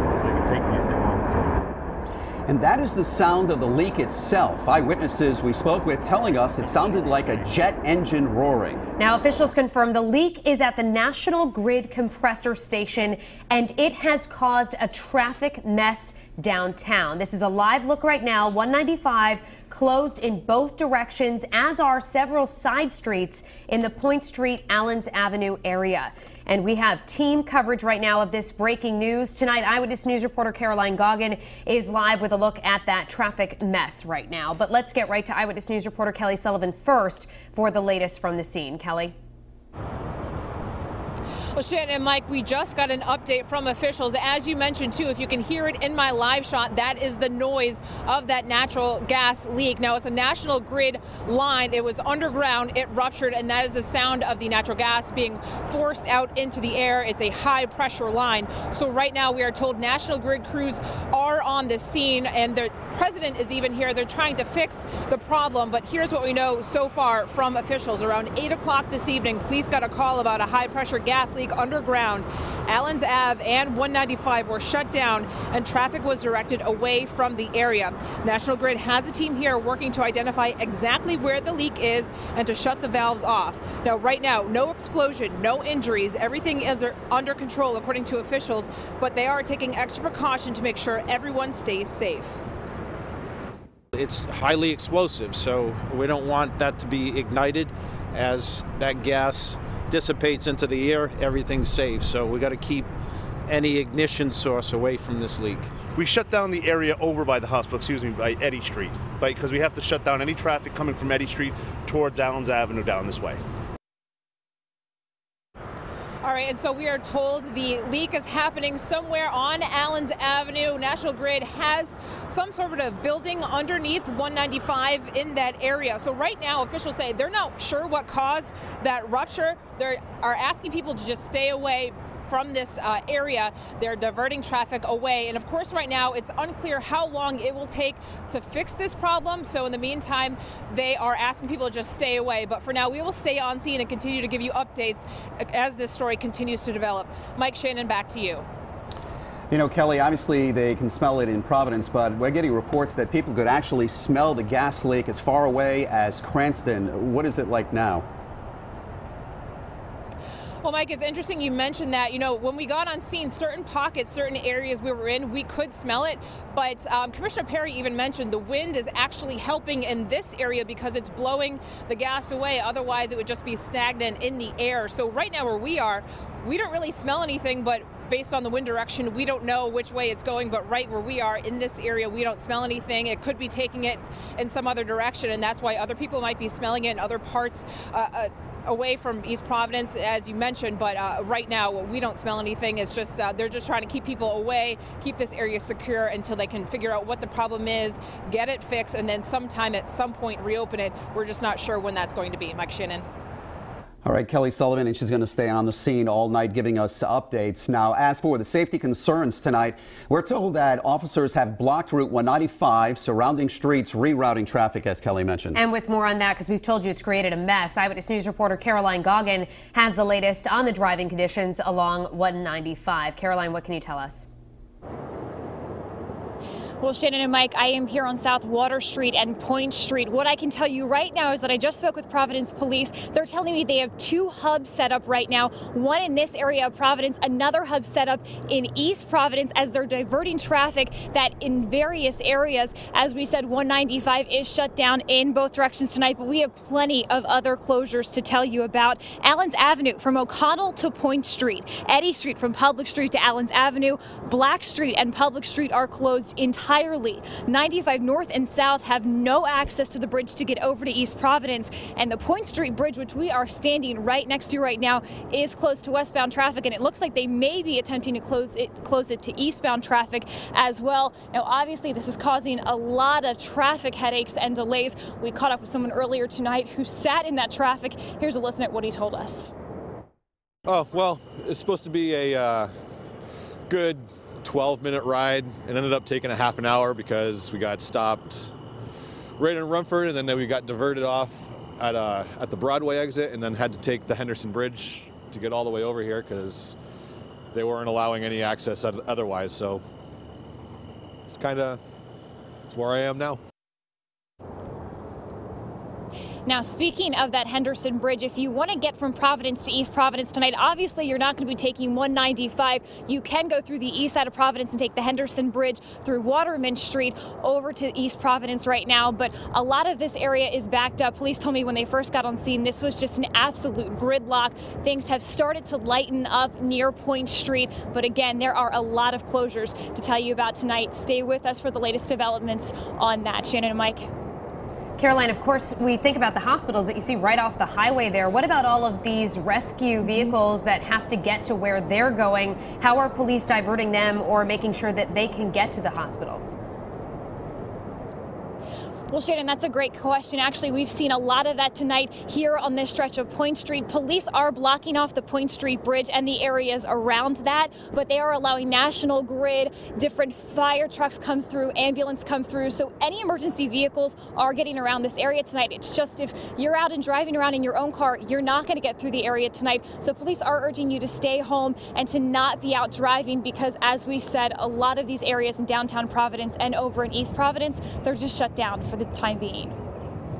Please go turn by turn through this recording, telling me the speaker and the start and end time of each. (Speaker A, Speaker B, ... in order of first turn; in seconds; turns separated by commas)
Speaker A: 2.5-8.8, Speaker B: 9.0-39.1, Speaker C: 41.5-92.4, Speaker D: 93.9-102.9, Speaker D: 103.5-105.7, Speaker E: 105.9-113.4, Speaker C: 116.2-148.4, Speaker A: 149.5-158.0, Speaker C: 160.6-203.0, Speaker A: 204.0-215.6, Speaker B: 215.5-224.2, Speaker F: 226.8-279.5, Speaker G: 280.6-282.7, Speaker G: 283.7-288.5, Speaker G: 289.4-296.8, Speaker G: 297.5-299.8, Speaker G: 301.3-301.8, Speaker G: 302.7-303.4, Speaker F: 306.4-334.1, Speaker B: 335.0-346.6, Speaker F: 349.1-379.7